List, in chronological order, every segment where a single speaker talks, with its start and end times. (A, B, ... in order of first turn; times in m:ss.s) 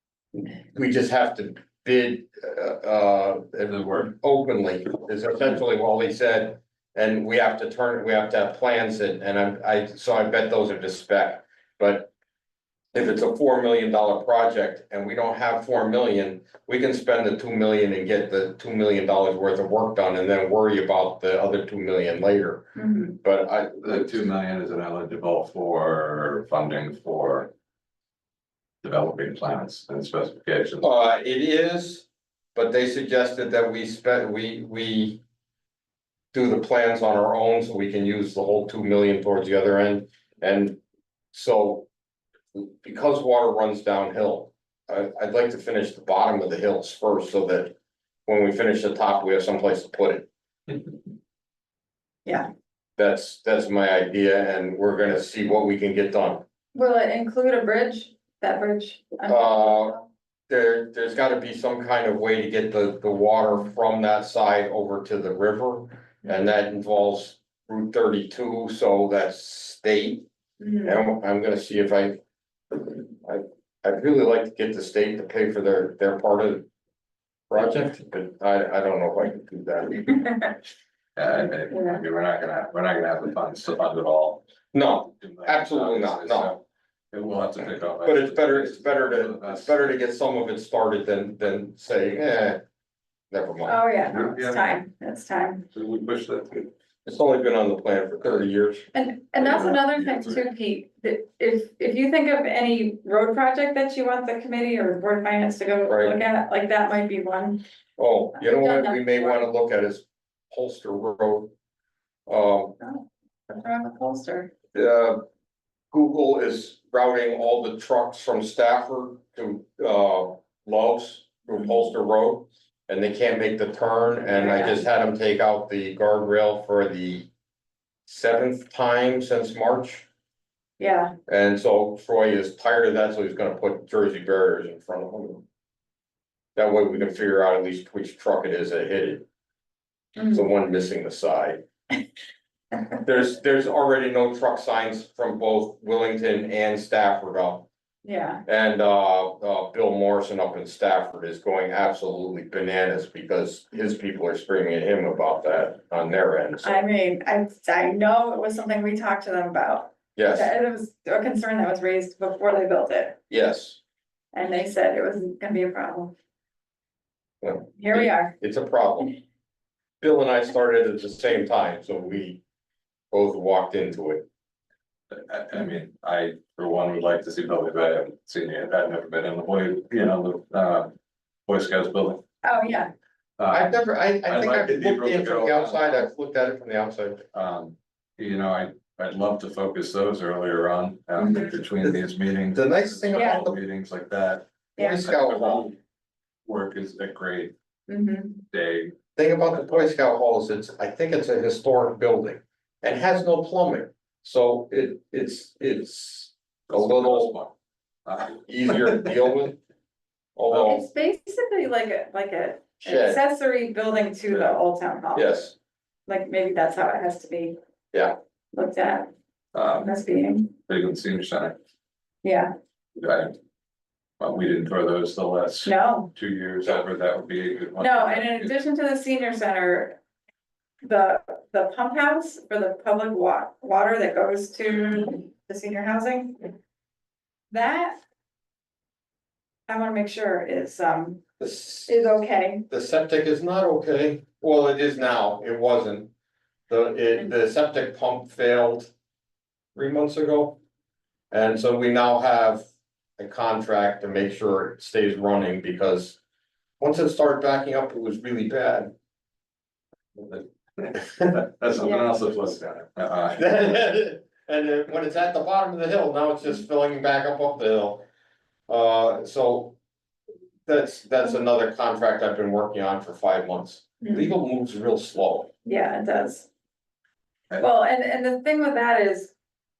0:00.3-0:12.1 A
0:12.9-0:24.2 A
0:22.8-0:23.2 B
0:23.8-0:27.5 C
0:28.8-0:30.9 C
0:30.8-0:35.2 A
0:36.3-0:40.8 A
0:41.3-0:41.9 A
0:42.5-0:47.8 A
0:48.3-0:50.3 A
0:53.0-0:56.4 A
0:56.8-1:00.1 B
0:59.3-1:00.0 A
1:00.5-1:10.3 A
1:10.6-1:11.0 B
1:10.8-1:12.2 A
1:12.7-1:16.7 A
1:17.5-1:20.5 A
1:21.2-1:24.4 C
1:21.7-1:22.0 B
1:24.7-1:26.6 A
1:25.2-1:29.9 C
1:28.0-1:32.6 A
1:33.3-1:33.8 A
1:33.6-1:35.6 B
1:34.1-1:34.8 C
1:35.7-1:36.7 C
1:37.0-1:38.9 A
1:38.9-1:47.6 B
1:39.4-1:40.4 C
1:45.9-1:46.2 A
1:48.0-1:51.5 A
1:48.4-1:49.5 B
1:52.3-1:52.8 A
1:52.8-1:54.5 B
1:54.7-1:55.2 A
1:55.9-2:07.3 A
2:04.3-2:04.8 B
2:08.1-2:10.1 A
2:10.8-2:11.1 B
2:11.3-2:15.4 A
2:16.6-2:19.3 A
2:20.2-2:20.5 B
2:20.3-2:21.6 A
2:23.0-2:27.7 A
2:28.0-2:28.4 B
2:28.5-2:36.8 A
2:36.6-2:43.2 B
2:40.2-2:40.5 A
2:43.3-2:43.8 A
2:44.3-2:46.2 B
2:47.4-2:49.2 A
2:47.8-2:48.3 B
2:50.0-2:52.4 A
2:53.1-2:54.2 A
2:55.1-3:00.9 C
3:01.5-3:02.2 C
3:02.4-3:02.9 B
3:03.4-3:06.0 C
3:03.5-3:07.3 A
3:07.3-3:14.5 C
3:11.2-3:11.6 B
3:12.5-3:13.6 A
3:13.1-3:13.4 B
3:14.8-3:15.1 B
3:14.8-3:15.7 A
3:15.0-3:15.8 C
3:16.4-3:17.5 C
3:17.9-3:18.4 B
3:18.5-3:19.0 C
3:19.2-3:27.4 A
3:19.5-3:19.8 C
3:26.7-3:27.5 C
3:28.1-3:29.1 C
3:28.4-3:29.6 A
3:30.4-3:30.9 A
3:30.7-3:35.3 B
3:32.8-3:33.2 A
3:35.1-3:35.6 A
3:36.1-3:37.6 B
3:38.5-3:39.1 B
3:39.5-3:40.0 C
3:39.8-3:40.5 B
3:40.7-3:41.6 C
3:42.2-3:42.5 B
3:43.0-3:43.4 C
3:44.2-3:48.5 C
3:45.6-3:46.1 B
3:47.8-3:50.0 B
3:50.8-3:56.5 B
3:57.5-3:58.0 B
3:59.7-4:01.2 B
4:01.4-4:06.1 A
4:01.9-4:02.6 B
4:06.7-4:08.9 A
4:09.8-4:10.6 A
4:11.3-4:12.6 A
4:13.2-4:16.2 A
4:16.8-4:18.9 A
4:20.2-4:23.6 C
4:21.8-4:22.2 B
4:23.4-4:28.0 A
4:28.7-4:29.8 A
4:30.7-4:35.5 A
4:34.0-4:34.3 B
4:35.7-4:36.5 B
4:37.6-4:39.3 B